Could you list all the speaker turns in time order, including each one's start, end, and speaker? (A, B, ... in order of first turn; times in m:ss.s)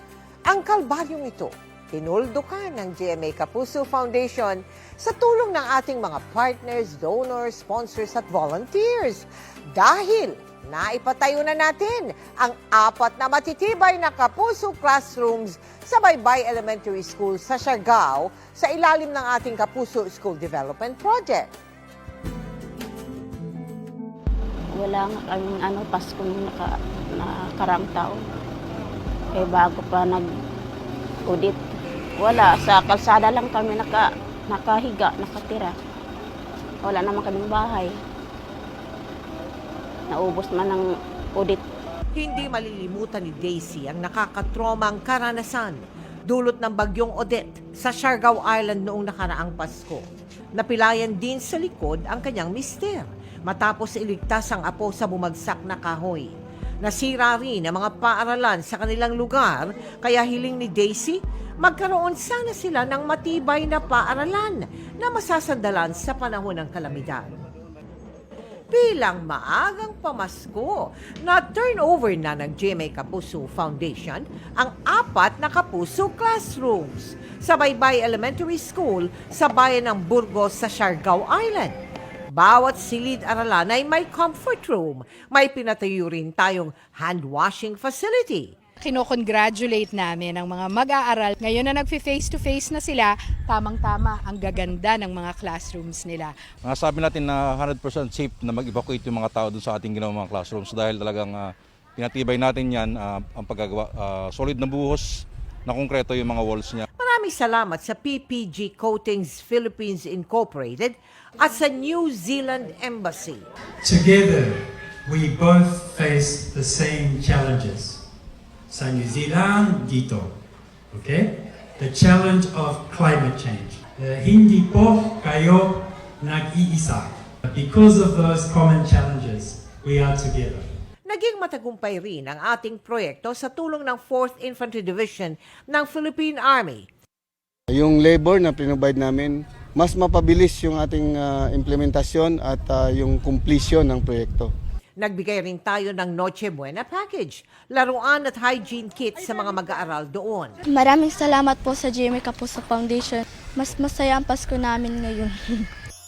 0:00.5-0:21.5 A
0:24.7-0:28.2 B
0:29.3-0:30.2 B
0:31.3-0:31.6 B
0:32.2-0:35.7 B
0:36.8-0:37.9 B
0:40.1-0:40.8 B
0:41.4-0:41.6 B
0:42.2-1:07.3 A
1:08.7-1:21.8 A
1:22.3-1:28.5 A
1:28.8-1:36.4 C
1:36.6-1:46.8 D
1:47.0-1:53.4 A
1:53.8-1:58.0 E
1:58.7-2:00.3 E
2:00.9-2:10.7 E
2:11.1-2:16.9 A
2:17.7-2:24.5 F
2:25.0-2:30.6 A
2:30.6-2:35.7 G